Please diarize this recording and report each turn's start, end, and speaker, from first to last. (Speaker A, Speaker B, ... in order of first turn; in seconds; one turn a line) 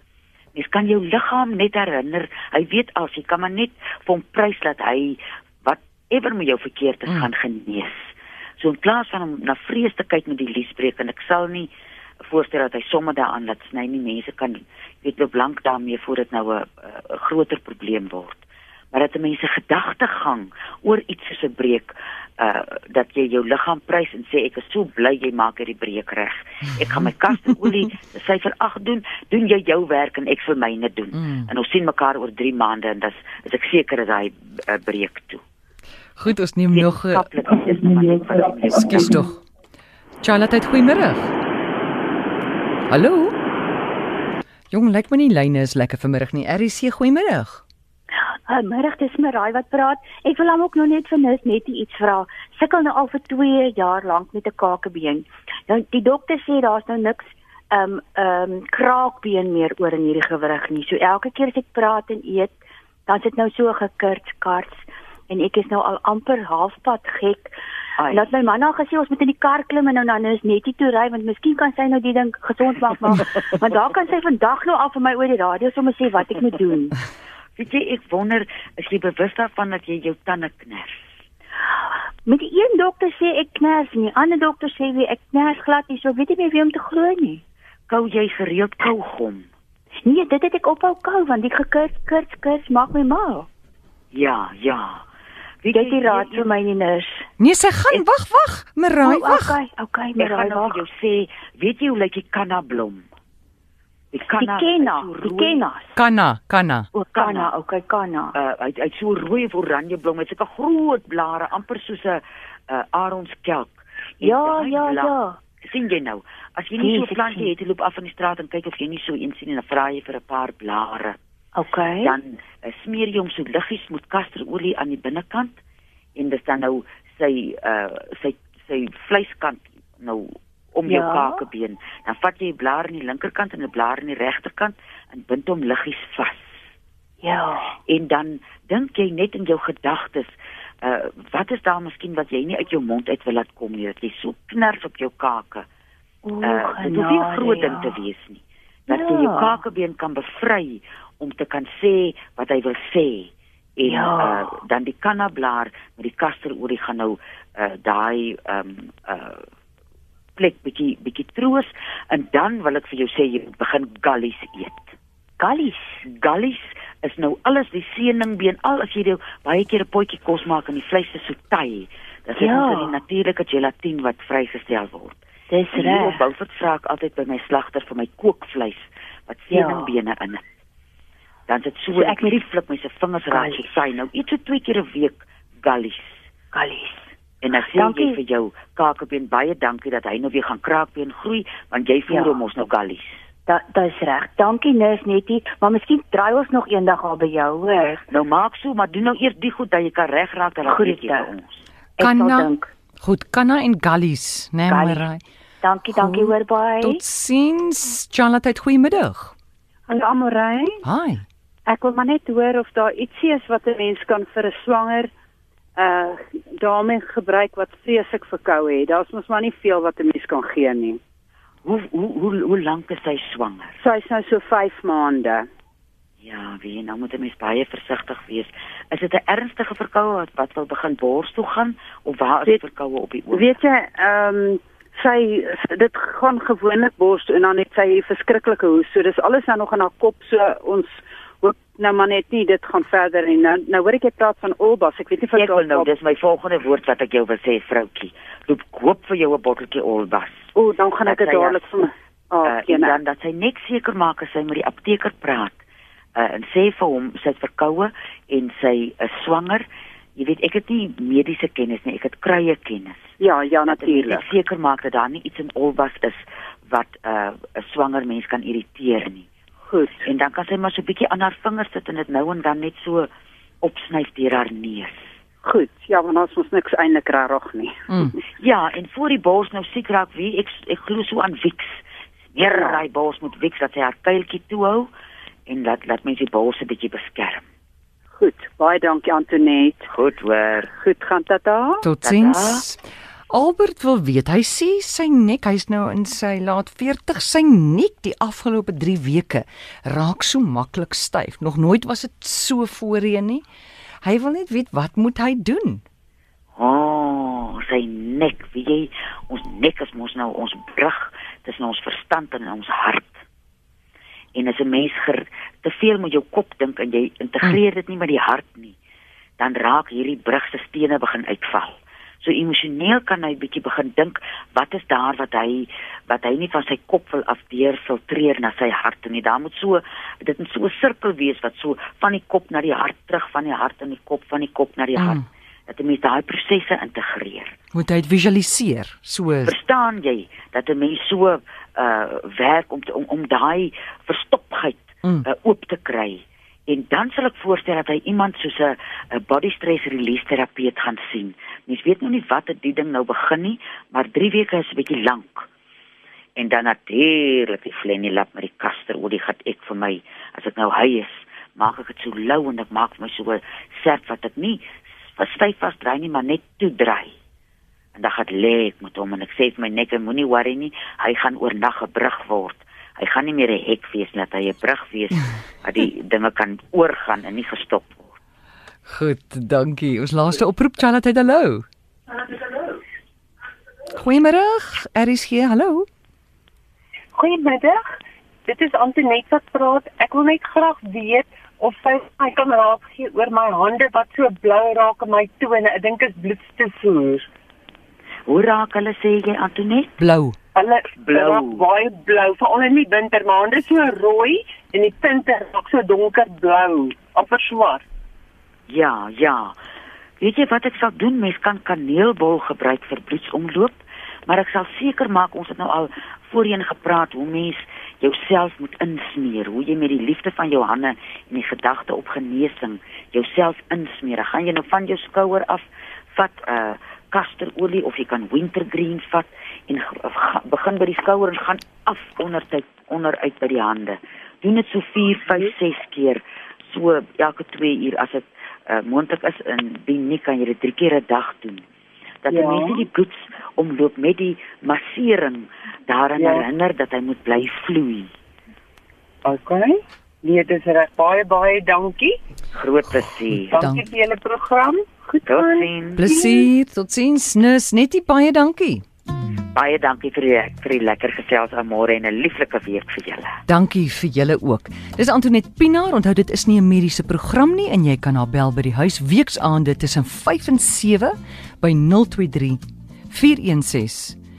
Speaker A: 0.5-11.7
Speaker A: 12.2-35.4
Speaker B: 36.2-37.3
Speaker A: 36.7-39.2
Speaker B: 38.7-39.4
Speaker B: 40.2-41.3
Speaker B: 42.9-43.3
Speaker B: 44.7-47.6
Speaker C: 48.5-62.5
Speaker C: 63.0-67.5
Speaker A: 68.0-68.3
Speaker C: 68.1-77.0
Speaker A: 77.5-81.1
Speaker C: 82.2-87.4
Speaker A: 87.9-89.5
Speaker C: 90.0-93.5
Speaker A: 94.1-95.0
Speaker A: 95.6-96.5
Speaker C: 95.7-97.3
Speaker B: 97.4-99.6
Speaker C: 99.0-100.8
Speaker A: 100.2-103.0
Speaker A: 104.1-105.6
Speaker C: 104.4-106.0
Speaker B: 105.9-106.9
Speaker C: 106.9-108.3
Speaker A: 107.1-107.5
Speaker A: 108.3-121.2
Speaker C: 114.2-115.4
Speaker C: 116.8-117.5
Speaker C: 121.5-122.1
Speaker A: 122.0-125.6
Speaker A: 126.2-136.7
Speaker C: 130.8-131.4
Speaker C: 137.2-137.8
Speaker A: 137.9-145.7
Speaker C: 146.2-148.0
Speaker A: 146.4-159.4
Speaker C: 148.9-149.6
Speaker C: 153.8-154.4
Speaker A: 160.4-164.9
Speaker C: 165.4-166.0
Speaker A: 166.0-175.2
Speaker C: 172.4-172.9
Speaker C: 175.5-176.2
Speaker A: 175.7-180.4
Speaker C: 179.5-179.9
Speaker A: 181.5-186.3
Speaker C: 181.9-182.4
Speaker C: 183.3-183.7
Speaker C: 186.5-188.2
Speaker A: 187.4-193.2
Speaker C: 192.1-192.3
Speaker C: 193.5-198.0
Speaker A: 198.1-201.6
Speaker C: 200.6-201.3
Speaker C: 202.0-202.7
Speaker B: 202.0-202.5
Speaker B: 203.0-205.2
Speaker C: 204.7-205.1
Speaker C: 205.6-207.0
Speaker B: 205.9-209.3
Speaker D: 209.9-210.8
Speaker B: 210.8-211.2
Speaker D: 211.7-215.1
Speaker D: 215.8-221.0
Speaker A: 221.6-223.8
Speaker D: 223.8-225.4
Speaker A: 226.2-233.6
Speaker D: 233.3-245.9
Speaker A: 245.3-250.5
Speaker D: 250.5-253.0
Speaker A: 251.0-251.7
Speaker A: 252.4-255.6
Speaker A: 256.1-259.6
Speaker A: 260.2-263.1
Speaker D: 263.2-264.2
Speaker A: 263.7-269.3
Speaker D: 269.7-270.0
Speaker A: 270.0-273.1
Speaker A: 273.6-275.1
Speaker D: 275.4-278.2
Speaker A: 278.4-281.8
Speaker A: 282.3-284.9
Speaker D: 282.4-282.8
Speaker A: 285.5-287.4
Speaker D: 288.1-289.9
Speaker A: 289.9-290.7
Speaker D: 290.8-291.8
Speaker B: 291.8-292.8
Speaker A: 292.0-292.7
Speaker B: 293.3-303.4
Speaker B: 304.0-305.8
Speaker A: 306.6-313.2
Speaker A: 314.3-318.8
Speaker A: 319.4-337.5
Speaker B: 335.0-335.2
Speaker B: 337.7-339.5
Speaker A: 339.4-355.5
Speaker A: 356.4-367.1
Speaker A: 367.9-378.1
Speaker B: 378.9-381.6
Speaker B: 383.9-385.9
Speaker E: 387.1-387.8
Speaker E: 388.5-397.2
Speaker A: 398.2-400.0
Speaker B: 400.0-400.4
Speaker E: 400.6-407.8
Speaker A: 401.0-401.6
Speaker A: 408.7-409.6
Speaker A: 410.2-441.6
Speaker A: 442.2-448.1
Speaker E: 442.4-442.7
Speaker E: 449.2-452.1
Speaker A: 452.5-453.6
Speaker B: 453.5-453.9
Speaker E: 453.5-455.6
Speaker A: 455.2-456.1
Speaker B: 456.0-458.8
Speaker A: 459.5-463.4
Speaker B: 463.5-474.2